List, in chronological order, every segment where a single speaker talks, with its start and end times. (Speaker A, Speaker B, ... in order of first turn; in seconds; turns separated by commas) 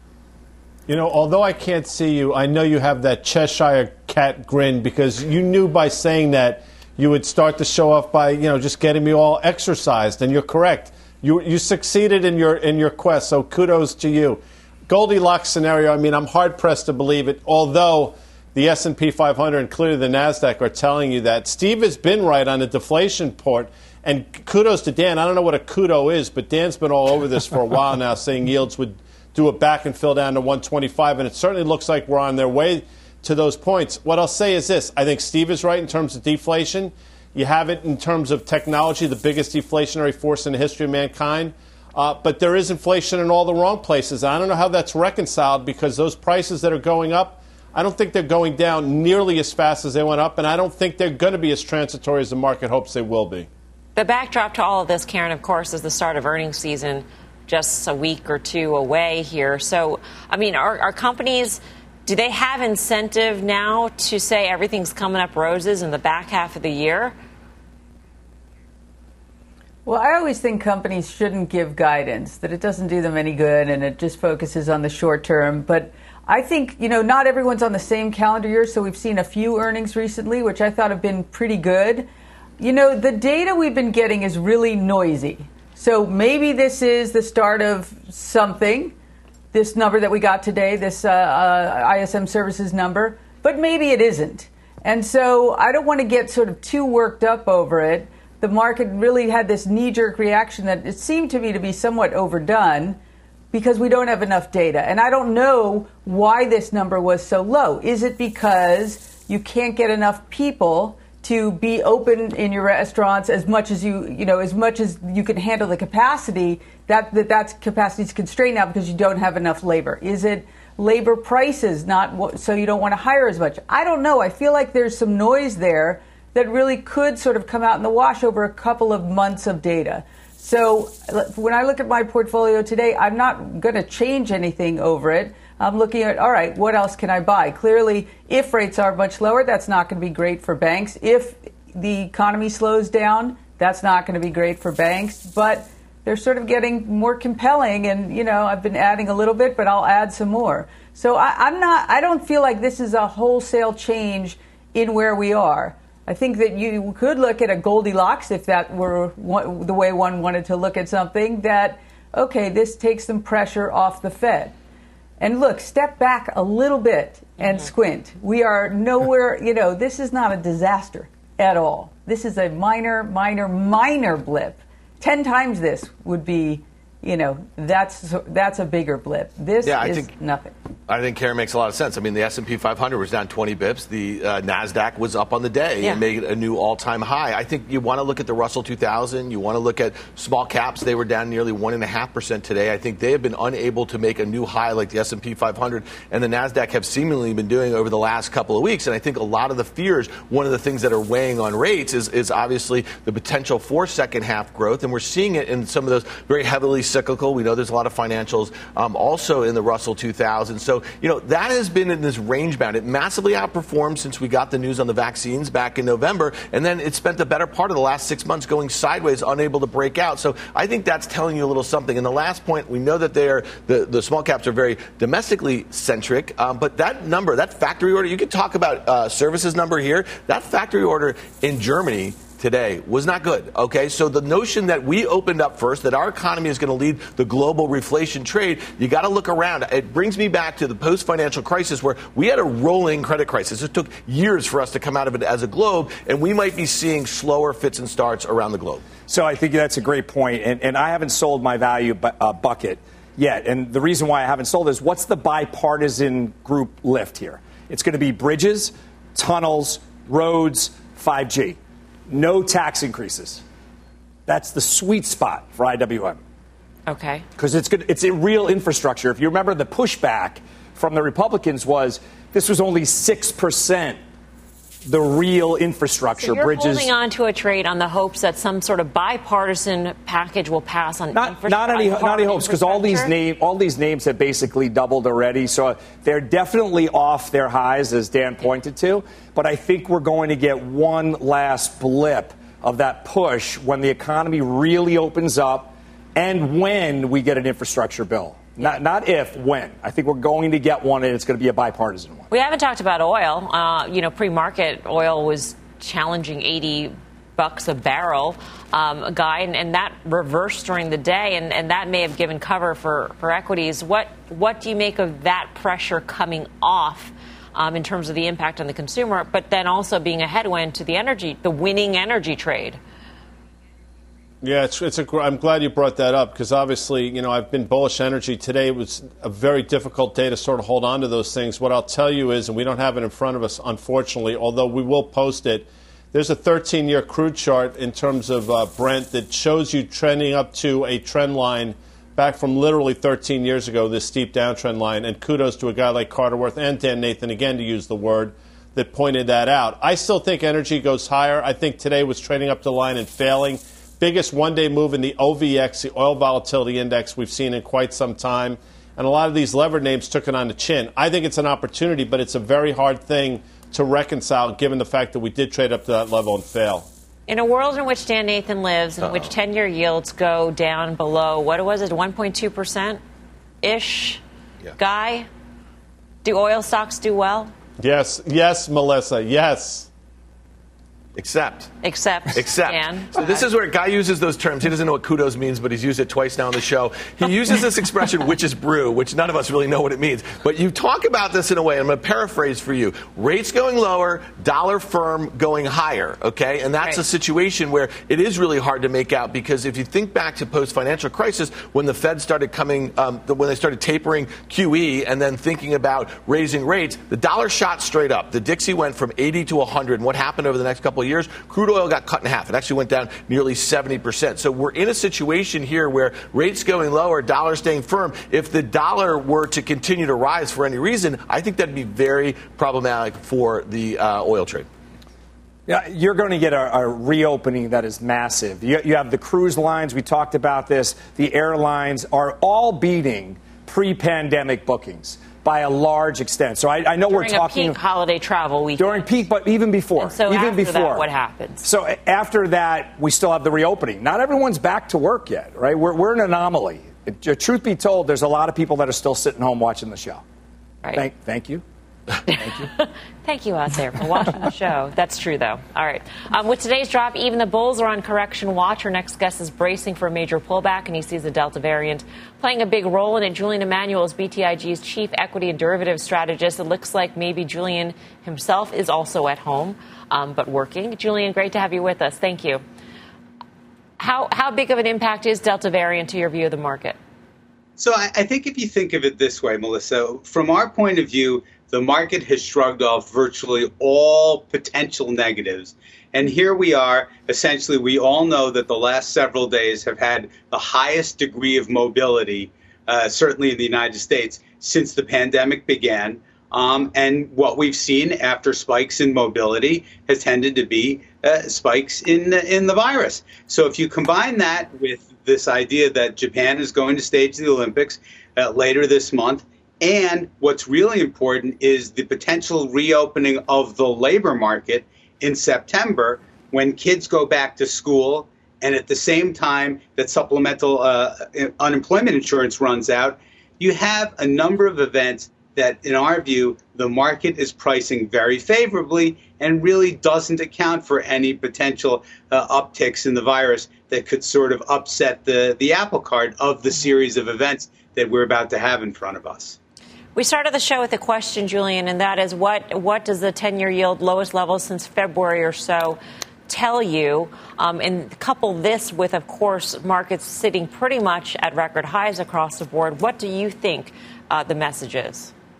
Speaker A: 0.9-53.5, Speaker B: 54.0-67.2, Speaker C: 69.8-89.0, Speaker C: 89.5-103.0, Speaker C: 103.5-164.6, Speaker C: 165.2-180.5, Speaker B: 167.4-167.7, Speaker D: 179.6-180.1, Speaker D: 180.9-248.9, Speaker E: 249.1-263.4, Speaker E: 264.3-266.2, Speaker B: 266.9-267.2, Speaker E: 267.4-274.0, Speaker E: 274.9-276.9, Speaker B: 276.2-283.1, Speaker E: 281.1-302.2, Speaker B: 302.3-322.8, Speaker A: 324.4-366.9, Speaker B: 367.3-373.0, Speaker D: 369.0-369.3, Speaker B: 373.6-374.2, Speaker B: 374.8-375.3, Speaker B: 376.2-377.5, Speaker A: 377.8-379.9, Speaker D: 381.2-381.7, Speaker B: 381.8-383.4, Speaker D: 382.3-424.7, Speaker E: 425.7-437.8, Speaker B: 437.1-439.1, Speaker E: 438.8-441.1, Speaker B: 440.0-441.7, Speaker E: 441.6-450.2, Speaker E: 450.9-451.6, Speaker B: 452.3-472.6, Speaker E: 452.3-452.7, Speaker B: 474.0-477.0, Speaker F: 477.8-539.6, Speaker B: 540.1-555.3